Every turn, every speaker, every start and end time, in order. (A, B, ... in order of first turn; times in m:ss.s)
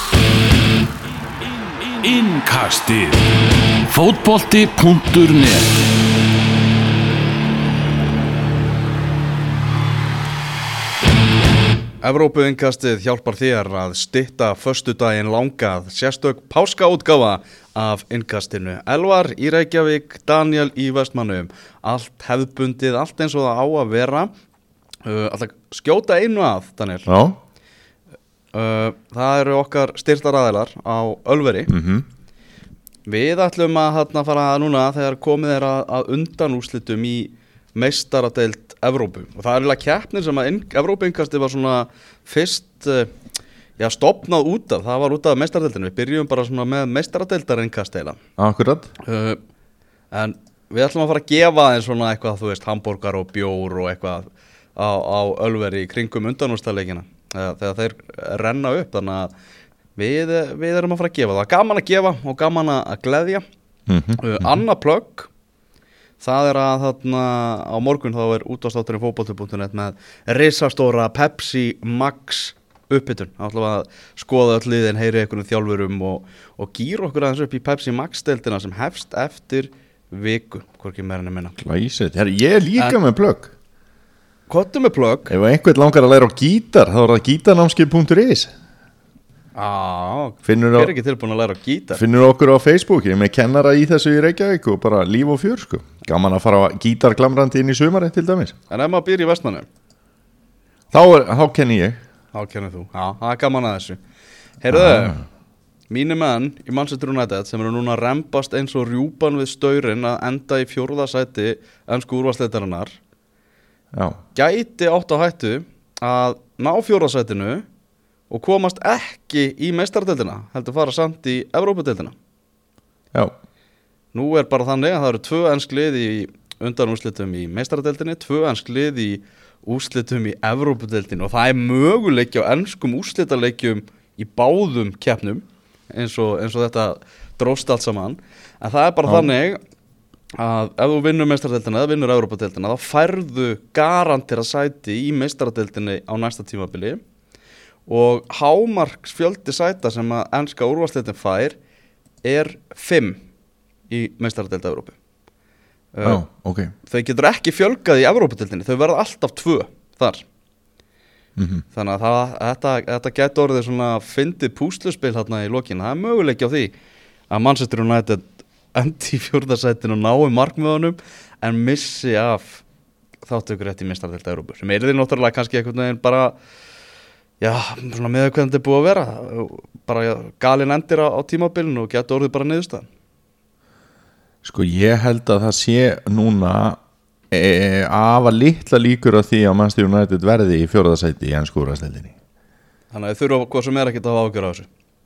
0:01.8-0:03.3 A
0:03.9-0:05.8 A
0:12.0-0:24.3 B
0:25.0-0:27.1 B
0:27.1-0:27.4 C
0:28.5-0:31.7 B
0:31.7-0:32.0 C
0:33.0-0:43.1 B
0:43.8-0:48.2 B
0:48.4-0:48.9 C
0:49.0-0:49.4 B
0:50.1-0:59.3 B
1:00.0-1:03.4 B
1:03.9-1:04.6 C
1:04.2-1:05.3 B
1:06.2-1:21.5 B
1:21.6-1:23.5 C
1:24.5-1:25.3 B
1:25.3-1:28.5 C
1:29.5-1:32.0 B
1:30.4-1:30.9 C
1:31.9-1:38.6 C
1:38.7-1:39.7 B
1:40.9-1:42.0 C
1:42.3-1:44.0 B
1:44.6-1:45.2 B
1:44.7-1:45.2 C
1:45.9-1:53.0 B
1:53.9-1:54.2 C
1:54.3-1:57.6 B
1:58.3-2:02.1 B
2:04.1-2:19.6 B
2:19.0-2:19.3 C
2:20.3-2:27.0 B
2:27.9-2:31.6 B
2:32.2-2:33.2 B
2:33.9-2:35.0 B
2:35.9-2:36.2 B
2:36.0-2:36.7 C
2:36.8-2:40.2 B
2:41.4-2:41.6 C
2:41.7-2:46.7 B
2:47.3-2:52.6 B
2:53.2-2:56.4 B
2:57.4-3:02.9 B
3:04.4-3:06.8 C
3:07.3-3:12.1 C
3:12.9-3:14.7 B